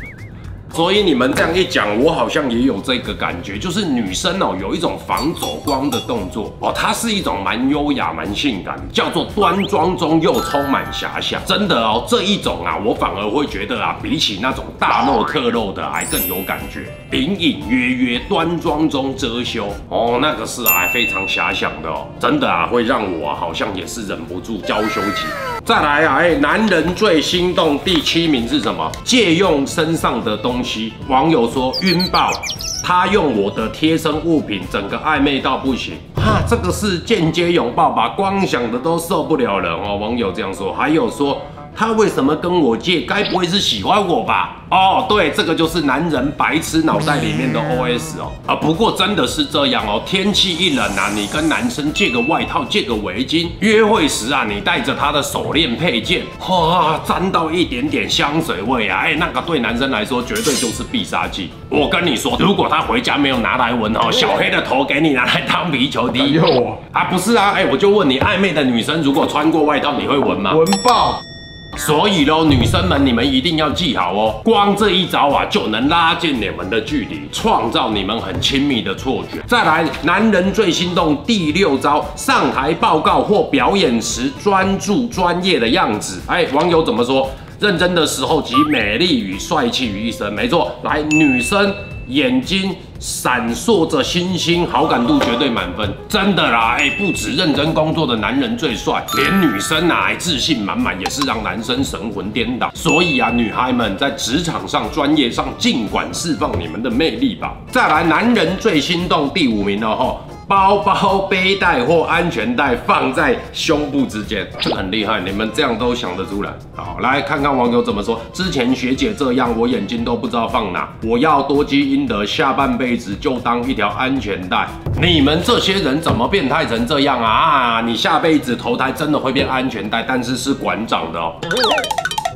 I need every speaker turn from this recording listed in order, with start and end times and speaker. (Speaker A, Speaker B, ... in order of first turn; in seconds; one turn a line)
Speaker A: 0.7-71.2
Speaker A: 71.8-131.4